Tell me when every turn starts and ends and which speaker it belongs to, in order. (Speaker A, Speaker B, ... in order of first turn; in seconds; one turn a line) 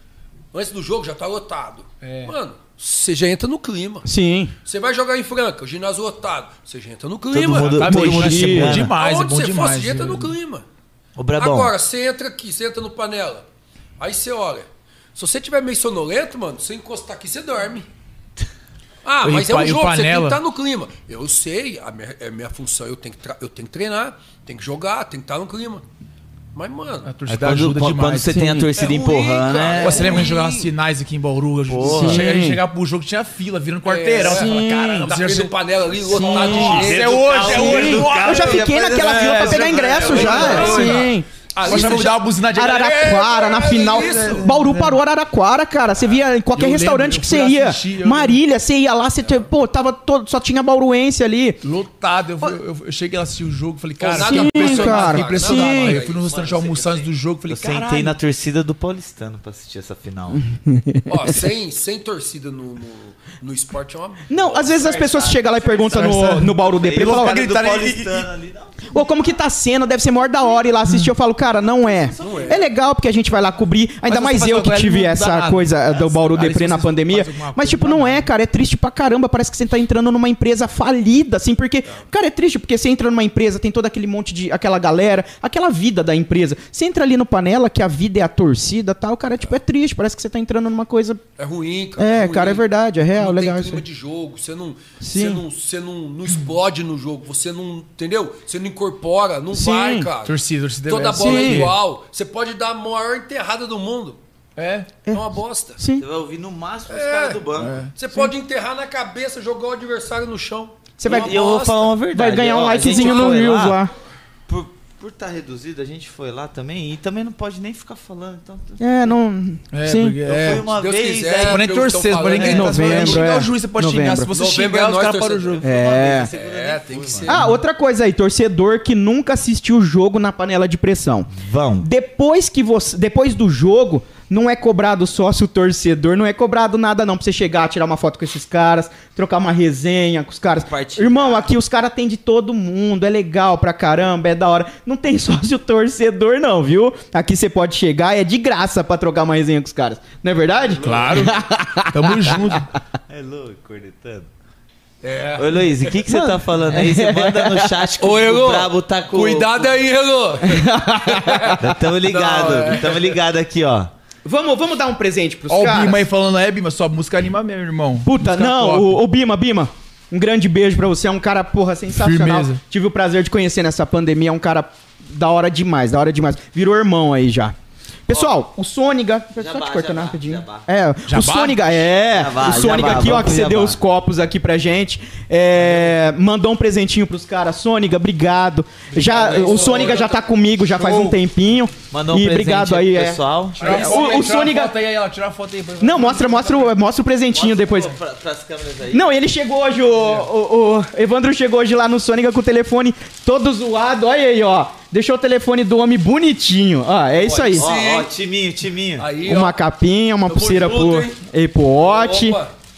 Speaker A: 0.5-4.1
Speaker B: 2.0-2.3
Speaker C: 4.0-4.5
Speaker A: 4.6-7.8
Speaker D: 7.3-8.9
Speaker B: 7.5-10.3
Speaker C: 7.8-8.9
Speaker A: 9.0-10.6
Speaker D: 11.2-11.7
Speaker A: 11.4-13.4
Speaker A: 14.0-17.9
Speaker A: 19.0-25.8
Speaker B: 19.2-20.4
Speaker A: 26.5-27.1
Speaker B: 27.1-28.9
Speaker D: 27.3-30.2
Speaker A: 28.7-30.7
Speaker B: 29.8-35.5
Speaker D: 31.7-32.4
Speaker C: 31.8-32.6
Speaker A: 33.8-37.2
Speaker C: 34.2-35.1
Speaker C: 36.0-36.9
Speaker B: 36.3-41.1
Speaker D: 36.4-40.9
Speaker C: 37.4-51.6
Speaker A: 40.0-42.2
Speaker B: 41.6-45.0
Speaker A: 43.3-44.4
Speaker B: 46.5-48.4
Speaker B: 51.6-58.1
Speaker A: 54.0-56.2
Speaker C: 54.2-56.0
Speaker D: 56.2-60.4
Speaker C: 60.4-61.3
Speaker A: 61.1-65.7
Speaker C: 64.3-67.5
Speaker D: 65.0-69.2
Speaker B: 65.9-68.3
Speaker C: 68.9-91.2
Speaker D: 71.8-72.7
Speaker A: 72.2-72.6
Speaker B: 74.0-78.3
Speaker A: 91.4-100.3
Speaker C: 92.0-93.8
Speaker C: 95.0-95.4
Speaker C: 99.5-100.1
Speaker B: 100.2-101.8
Speaker A: 100.9-104.2
Speaker C: 101.2-101.7
Speaker B: 104.6-104.9
Speaker C: 105.0-106.0
Speaker A: 105.1-105.8
Speaker D: 106.0-107.8
Speaker A: 106.9-111.9
Speaker B: 107.5-107.9
Speaker C: 111.0-111.4
Speaker D: 111.0-113.8
Speaker C: 112.1-113.9
Speaker A: 112.8-113.4
Speaker D: 114.5-118.8
Speaker C: 118.8-120.2
Speaker B: 119.7-120.7
Speaker D: 120.2-121.8
Speaker A: 120.3-123.2
Speaker B: 121.4-125.6
Speaker D: 122.3-122.7
Speaker C: 122.4-124.3
Speaker A: 124.3-125.6
Speaker D: 125.5-127.4
Speaker C: 125.6-126.3
Speaker A: 126.2-127.4
Speaker C: 127.3-152.6
Speaker B: 127.3-127.6
Speaker D: 131.3-131.9
Speaker D: 140.5-141.5
Speaker B: 150.8-152.7
Speaker D: 150.8-151.3
Speaker D: 153.1-154.3
Speaker A: 155.0-156.0
Speaker D: 155.4-159.7
Speaker C: 156.1-157.9
Speaker A: 158.0-163.2
Speaker C: 160.4-161.8
Speaker D: 161.6-163.9
Speaker C: 164.2-166.1
Speaker B: 165.5-168.9
Speaker C: 168.0-177.5
Speaker B: 171.9-172.6
Speaker C: 178.1-194.8
Speaker D: 179.4-180.7
Speaker B: 181.1-181.9
Speaker D: 182.1-183.8
Speaker B: 185.6-185.9
Speaker B: 188.9-190.1
Speaker A: 189.4-190.2
Speaker B: 190.7-191.2
Speaker D: 191.9-194.3
Speaker B: 193.6-196.8
Speaker C: 195.8-197.9
Speaker D: 197.3-199.0
Speaker C: 198.9-207.7
Speaker A: 207.2-208.1
Speaker D: 207.6-209.1
Speaker A: 209.0-209.6
Speaker C: 209.2-212.4
Speaker A: 210.2-211.2
Speaker A: 211.8-212.5